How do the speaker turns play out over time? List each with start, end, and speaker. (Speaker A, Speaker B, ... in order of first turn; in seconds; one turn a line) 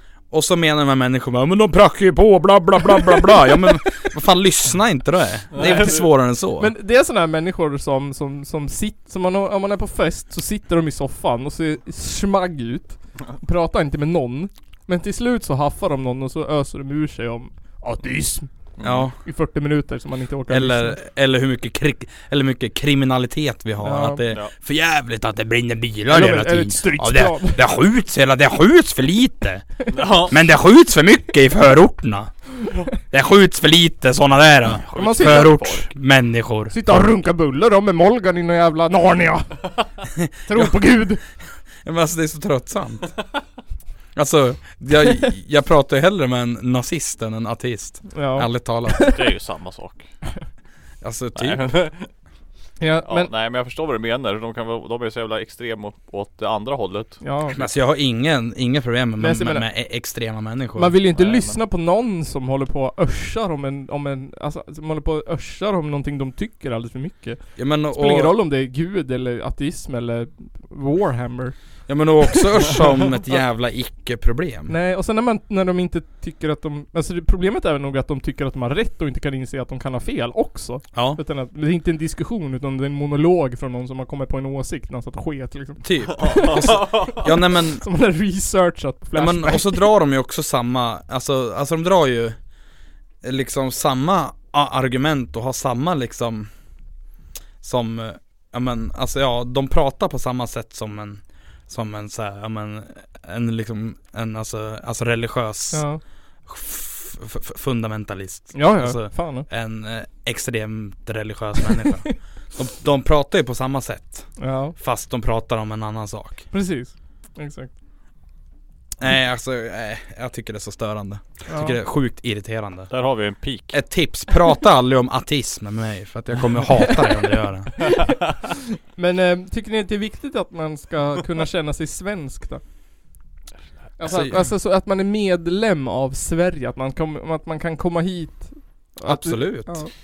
Speaker A: 0.3-6.7
Speaker B: 5.5-6.1
Speaker C: 5.6-6.0
Speaker C: 6.6-18.5
Speaker B: 18.8-19.1
Speaker A: 18.8-19.1
Speaker C: 19.2-21.0
Speaker A: 20.5-32.3
Speaker C: 23.8-24.2
Speaker C: 26.1-27.6
Speaker B: 29.9-30.4
Speaker A: 33.0-36.9
Speaker B: 34.9-35.9
Speaker C: 34.9-35.7
Speaker C: 36.7-39.7
Speaker C: 40.5-41.2
Speaker A: 40.5-40.8
Speaker A: 41.8-43.1
Speaker A: 44.1-49.1
Speaker C: 48.1-49.1
Speaker B: 49.0-50.1
Speaker A: 51.0-51.6
Speaker B: 51.4-52.1
Speaker C: 52.8-53.3
Speaker B: 53.1-57.7
Speaker C: 57.2-57.6
Speaker A: 57.5-60.9
Speaker C: 59.2-59.6
Speaker C: 60.8-71.6
Speaker B: 61.1-61.6
Speaker A: 67.6-68.3
Speaker A: 71.9-74.7
Speaker C: 74.7-87.3
Speaker A: 80.9-81.2
Speaker A: 85.8-87.8
Speaker B: 86.2-87.2
Speaker C: 87.8-89.8
Speaker A: 89.1-92.4
Speaker A: 93.2-96.5
Speaker A: 97.6-105.8
Speaker C: 105.7-106.0
Speaker A: 106.5-116.5
Speaker C: 108.5-109.5
Speaker C: 114.4-114.8
Speaker C: 116.5-117.7
Speaker A: 119.0-122.9
Speaker C: 121.5-121.8
Speaker B: 122.9-123.8
Speaker A: 123.7-127.9
Speaker C: 128.9-132.6
Speaker C: 134.0-139.9
Speaker A: 134.1-134.4
Speaker A: 139.0-139.8